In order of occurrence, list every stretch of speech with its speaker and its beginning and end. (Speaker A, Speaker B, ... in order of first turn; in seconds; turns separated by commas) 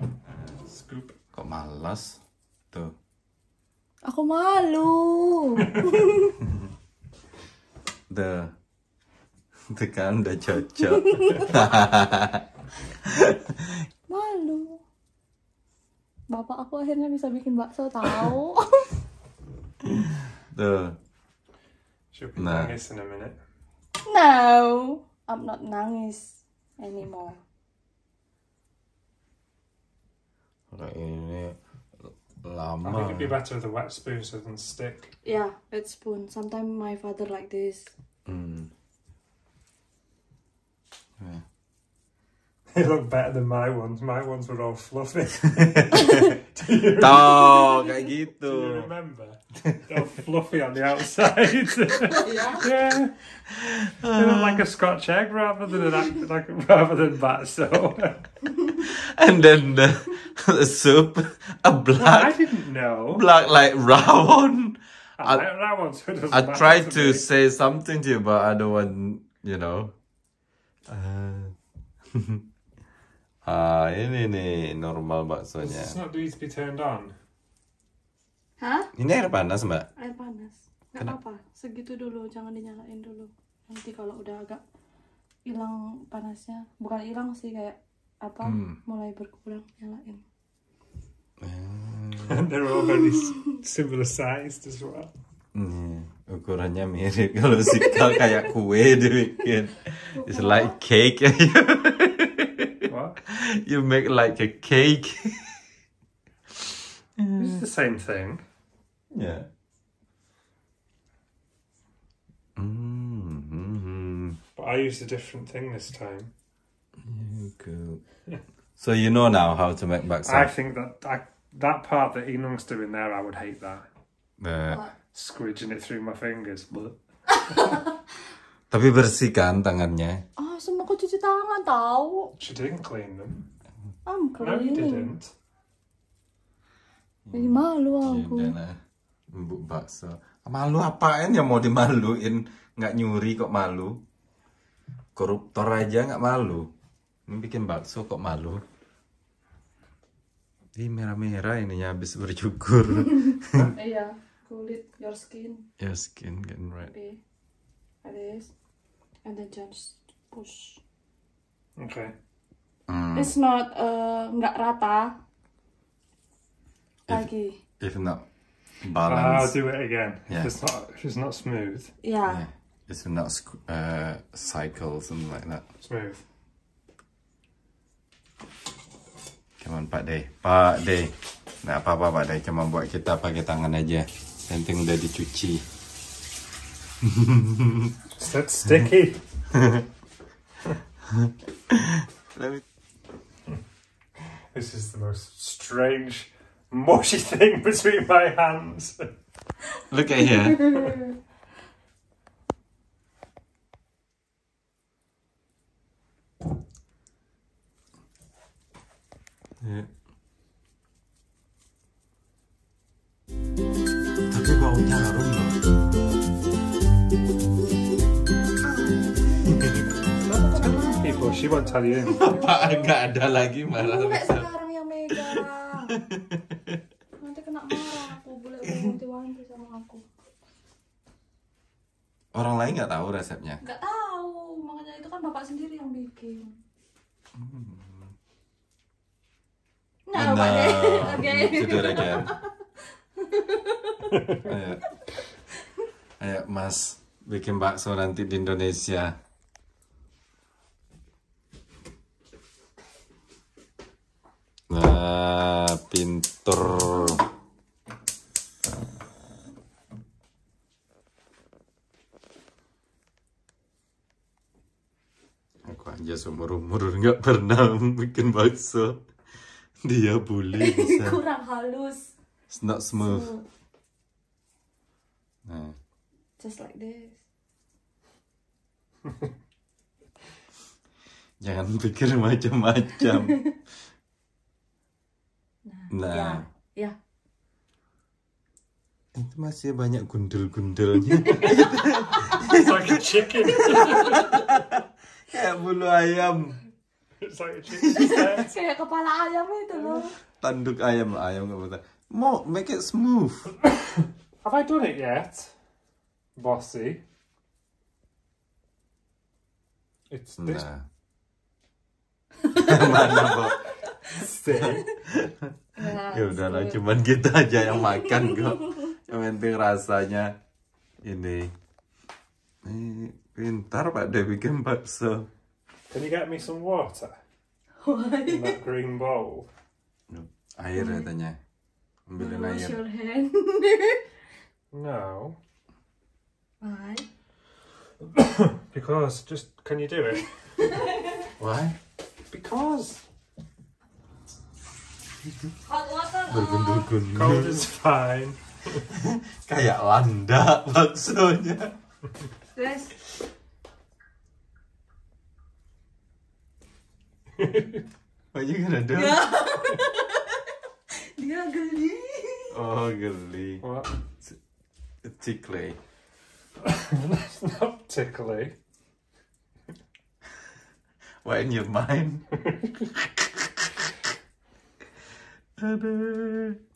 Speaker A: 0.7-1.1, Speaker B: 1.3-2.2, Speaker C: 4.0-6.4, Speaker B: 8.1-8.5, Speaker B: 9.7-12.4, Speaker C: 10.8-11.6, Speaker B: 13.0-13.8, Speaker C: 14.1-14.8, Speaker C: 16.3-18.9, Speaker B: 19.8-21.0, Speaker A: 22.1-23.4, Speaker B: 22.4-22.8, Speaker C: 24.0-27.4, Speaker B: 30.7-33.4, Speaker A: 32.8-35.1, Speaker C: 35.2-37.9, Speaker B: 38.3-38.7, Speaker B: 41.2-41.4, Speaker A: 42.7-53.1, Speaker B: 45.6-46.3, Speaker B: 47.0-48.9, Speaker C: 52.1-52.6, Speaker B: 53.5-54.6, Speaker A: 54.0-58.3, Speaker B: 58.8-62.4, Speaker A: 62.0-63.2, Speaker B: 63.1-65.5, Speaker A: 65.2-67.2, Speaker B: 66.3-69.9, Speaker B: 70.9-71.5, Speaker B: 72.1-72.5, Speaker B: 73.5-76.0, Speaker A: 75.6-77.2, Speaker C: 78.6-78.9, Speaker B: 79.0-79.9, Speaker C: 80.0-84.6, Speaker C: 85.5-90.2, Speaker B: 88.4-88.8, Speaker B: 91.4-92.5, Speaker A: 92.3-95.1, Speaker B: 95.5-105.6, Speaker C: 100.1-100.8, Speaker A: 102.8-103.2, Speaker B: 107.2-107.6, Speaker A: 107.4-108.4, Speaker B: 109.1-109.5, Speaker B: 112.6-114.4, Speaker A: 114.6-116.3, Speaker B: 117.0-118.0, Speaker B: 118.8-120.5, Speaker A: 120.3-123.8, Speaker B: 124.4-124.8, Speaker C: 124.7-124.9, Speaker A: 125.1-127.0, Speaker C: 127.4-127.8, Speaker B: 128.7-130.2, Speaker C: 130.4-132.3, Speaker A: 132.4-133.5, Speaker C: 134.1-135.1, Speaker A: 134.4-135.3, Speaker B: 137.3-138.8, Speaker C: 137.3-138.6, Speaker B: 139.3-144.0, Speaker B: 145.2-146.7, Speaker B: 147.3-148.6, Speaker B: 150.8-153.7, Speaker C: 153.3-155.7, Speaker B: 155.8-156.9, Speaker C: 156.8-157.2, Speaker C: 158.0-158.5, Speaker C: 159.2-160.8, Speaker A: 161.8-162.2, Speaker B: 162.9-163.3, Speaker C: 163.1-165.2, Speaker C: 167.1-167.6, Speaker B: 167.8-168.2, Speaker B: 168.8-169.6, Speaker A: 169.1-171.9, Speaker C: 172.0-172.4, Speaker B: 172.3-175.6, Speaker A: 175.8-176.2, Speaker B: 179.6-185.7, Speaker B: 187.0-187.9, Speaker A: 188.2-189.2, Speaker B: 189.5-189.8, Speaker B: 191.1-192.6, Speaker A: 194.5-199.1, Speaker B: 199.9-200.7, Speaker B: 209.6-209.9, Speaker B: 214.3-215.6, Speaker C: 218.8-223.0, Speaker B: 219.5-219.8, Speaker A: 220.3-222.3, Speaker B: 222.1-224.5, Speaker C: 223.8-226.0, Speaker B: 225.1-225.4, Speaker B: 225.9-226.8, Speaker C: 227.2-230.0, Speaker B: 232.3-233.6, Speaker C: 233.6-236.6, Speaker B: 237.3-238.1, Speaker C: 240.1-242.5, Speaker B: 240.1-242.3, Speaker C: 243.2-244.2, Speaker A: 244.2-244.5, Speaker B: 244.4-244.9, Speaker B: 246.2-249.2, Speaker B: 254.7-257.2, Speaker B: 265.6-269.0, Speaker B: 269.8-271.2, Speaker C: 270.6-272.1, Speaker B: 272.5-273.3, Speaker C: 273.0-273.4, Speaker B: 275.4-275.8, Speaker C: 276.4-277.2, Speaker B: 281.4-283.4, Speaker C: 285.6-287.0, Speaker B: 285.9-286.5, Speaker B: 289.1-296.6, Speaker A: 292.2-294.4, Speaker A: 297.2-298.6, Speaker B: 297.8-298.2, Speaker C: 297.9-300.2, Speaker A: 299.7-300.1, Speaker B: 300.4-303.5, Speaker A: 304.4-305.5, Speaker A: 306.4-307.0, Speaker A: 310.1-310.6, Speaker B: 310.4-310.9, Speaker B: 312.5-313.6, Speaker C: 312.6-313.4, Speaker A: 314.1-315.0, Speaker B: 314.5-320.4, Speaker C: 315.8-316.8, Speaker B: 321.0-321.5, Speaker B: 322.6-325.3, Speaker A: 325.9-327.2, Speaker C: 327.8-328.6, Speaker A: 328.3-329.5, Speaker B: 330.1-331.4, Speaker C: 330.7-331.1, Speaker B: 332.1-332.8, Speaker C: 332.2-334.0, Speaker A: 334.7-335.4, Speaker C: 336.6-337.1, Speaker A: 338.0-340.3, Speaker C: 340.6-341.1, Speaker B: 341.4-341.8, Speaker A: 342.3-343.0, Speaker C: 345.7-346.9, Speaker B: 346.3-347.7, Speaker A: 347.1-348.9, Speaker B: 348.9-351.8, Speaker C: 352.6-352.9, Speaker A: 357.4-357.8, Speaker B: 358.3-359.2, Speaker C: 359.0-360.3, Speaker C: 361.0-362.6, Speaker B: 362.5-363.6, Speaker A: 363.6-363.9, Speaker B: 365.0-365.8, Speaker A: 366.6-368.6, Speaker B: 371.2-372.3, Speaker B: 373.0-373.6, Speaker B: 375.6-376.6